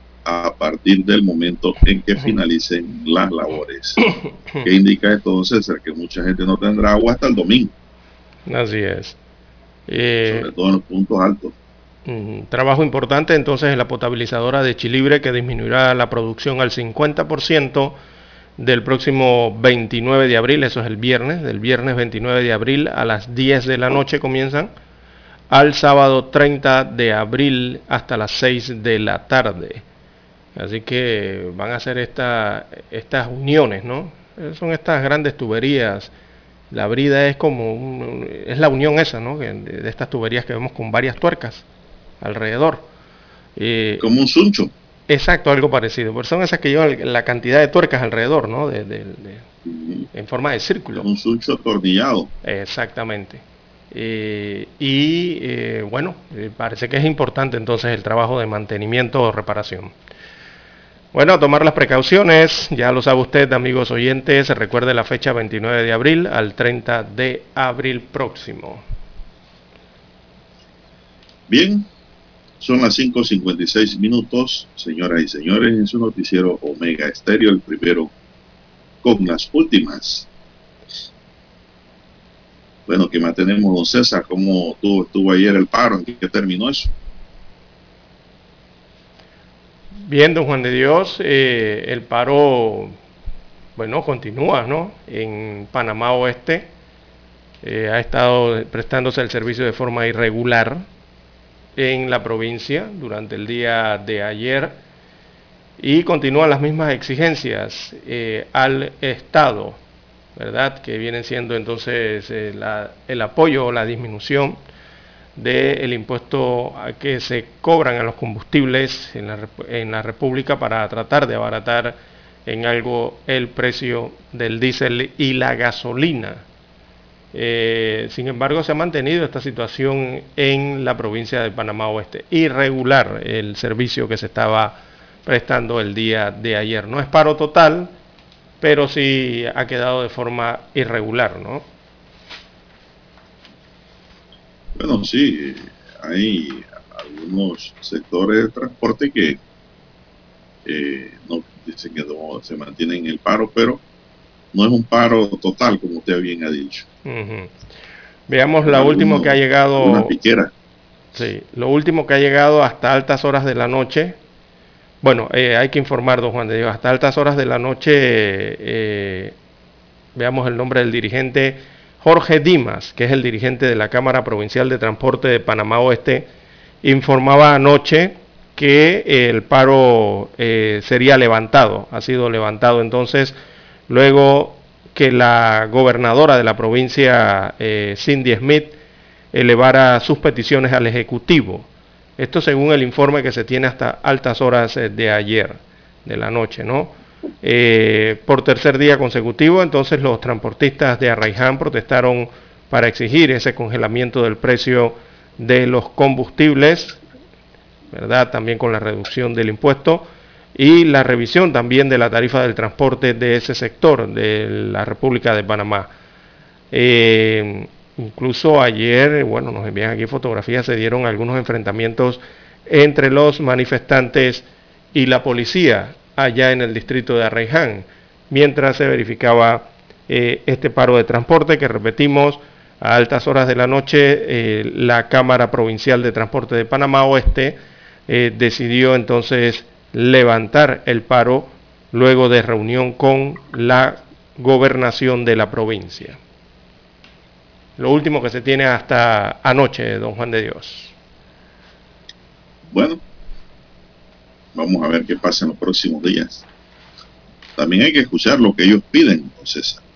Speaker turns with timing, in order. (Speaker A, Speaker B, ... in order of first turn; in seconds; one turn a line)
Speaker A: 0.2-4.0
Speaker B: 4.1-4.7
Speaker A: 4.6-7.7
Speaker B: 8.5-9.2
Speaker B: 9.9-10.5
Speaker A: 10.3-11.6
Speaker B: 12.1-18.0
Speaker B: 18.6-24.7
Speaker B: 25.5-29.9
Speaker B: 30.6-36.1
Speaker B: 36.7-41.6
Speaker B: 42.2-42.9
Speaker B: 43.6-44.0
Speaker A: 44.0-44.7
Speaker B: 45.1-49.4
Speaker A: 49.6-50.1
Speaker B: 50.1-51.1
Speaker A: 51.0-52.3
Speaker B: 52.4-59.9
Speaker B: 61.1-68.8
Speaker A: 71.5-71.9
Speaker A: 72.6-78.1
Speaker A: 79.0-80.3
Speaker A: 82.9-86.9
Speaker B: 90.0-93.0
Speaker B: 93.8-96.7
Speaker B: 97.6-100.9
Speaker B: 101.8-104.8
Speaker B: 105.8-109.8
Speaker B: 110.4-114.6
Speaker B: 115.4-126.4
Speaker B: 127.3-137.9
Speaker B: 138.6-141.7
Speaker A: 144.8-149.4
Speaker A: 150.7-153.8
Speaker A: 154.5-156.9
Speaker B: 157.1-157.5
Speaker B: 158.3-160.1
Speaker A: 158.6-160.5
Speaker B: 161.2-164.2
Speaker B: 165.0-169.3
Speaker B: 170.2-176.3
Speaker B: 176.8-183.4
Speaker B: 183.9-188.8
Speaker B: 189.3-207.0
Speaker B: 207.9-215.9
Speaker B: 216.7-246.2
Speaker B: 247.8-250.9
Speaker A: 252.7-253.0
Speaker A: 254.6-256.4
Speaker A: 257.6-259.8